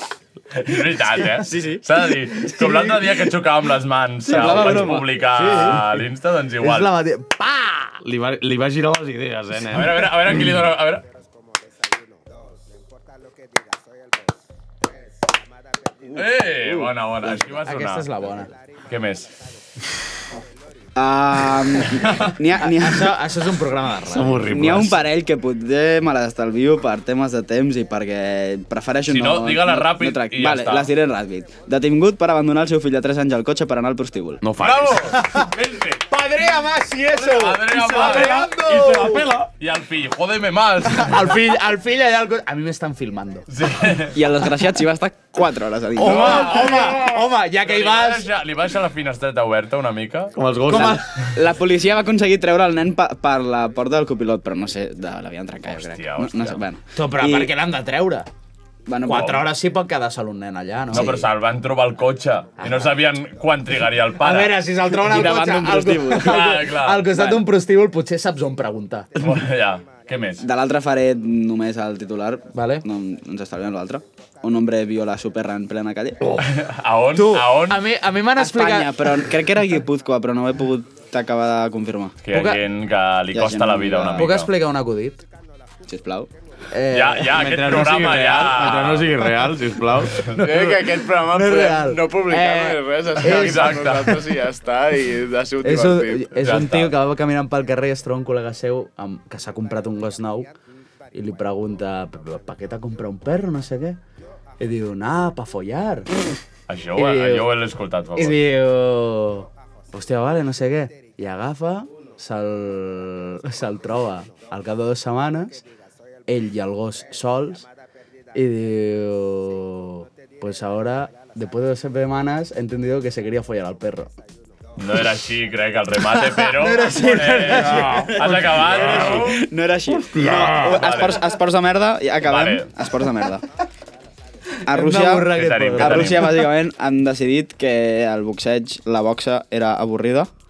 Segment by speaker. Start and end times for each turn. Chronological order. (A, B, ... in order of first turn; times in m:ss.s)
0:00.5-0:06.9 A
0:01.2-0:02.9 B
0:04.2-0:05.3 C
0:04.4-0:04.7 B
0:05.3-0:06.0 B
0:06.6-0:08.0 B
0:08.0-0:10.6 D
0:09.7-0:11.0 A
0:16.1-0:18.1 A
0:17.4-0:18.5 B
0:18.9-0:19.3 A
0:21.0-0:23.2 C
0:22.6-0:24.4 B
0:24.1-0:25.0 D
0:24.4-0:34.4 C
0:29.1-0:30.9 A
0:34.4-0:35.2 D
0:34.6-0:36.0 A
0:35.0-0:35.5 B
0:36.1-0:39.2 B
0:37.1-0:38.5 A
0:37.7-0:39.5 D
0:39.6-0:41.4 A
0:40.8-0:43.5 B
0:43.5-0:44.2 A
0:44.1-0:46.8 C
0:46.0-0:48.3 B
0:46.0-0:50.4 A
0:50.3-0:51.0 D
0:50.7-0:51.0 B
0:50.7-0:57.5 C
0:55.7-0:56.6 A
0:57.0-0:58.3 B
0:58.9-0:59.4 C
0:59.0-1:01.1 B
1:00.9-1:01.3 C
1:00.9-1:04.6 A
1:02.6-1:02.9 B
1:04.2-1:09.1 B
1:04.9-1:06.6 C
1:06.1-1:07.1 A
1:07.1-1:07.4 C
1:09.2-1:10.4 A
1:10.4-1:16.4 C
1:12.5-1:12.8 B
1:16.4-1:17.8 A
1:17.1-1:19.1 B
1:18.4-1:22.2 C
1:22.2-1:24.5 A
1:22.3-1:22.6 B
1:23.3-1:24.3 C
1:24.2-1:25.2 B
1:25.9-1:26.3 C
1:26.7-1:27.3 B
1:26.9-1:29.2 A
1:27.3-1:30.4 D
1:30.4-1:36.4 E
1:31.3-1:34.1 B
1:33.2-1:34.2 A
1:35.6-1:40.5 B
1:36.4-1:36.9 A
1:41.1-1:44.0 B
1:44.6-1:46.1 B
1:46.7-1:48.4 A
1:47.0-1:47.5 B
1:48.2-1:55.6 B
1:56.3-1:57.7 B
1:58.3-2:04.1 B
2:04.8-2:09.4 A
2:06.1-2:08.5 B
2:07.4-2:09.3 D
2:08.2-2:13.4 C
2:09.9-2:10.9 D
2:10.5-2:11.3 A
2:12.2-2:12.7 A
2:14.7-2:16.4 B
2:14.7-2:20.3 C
2:15.3-2:16.5 A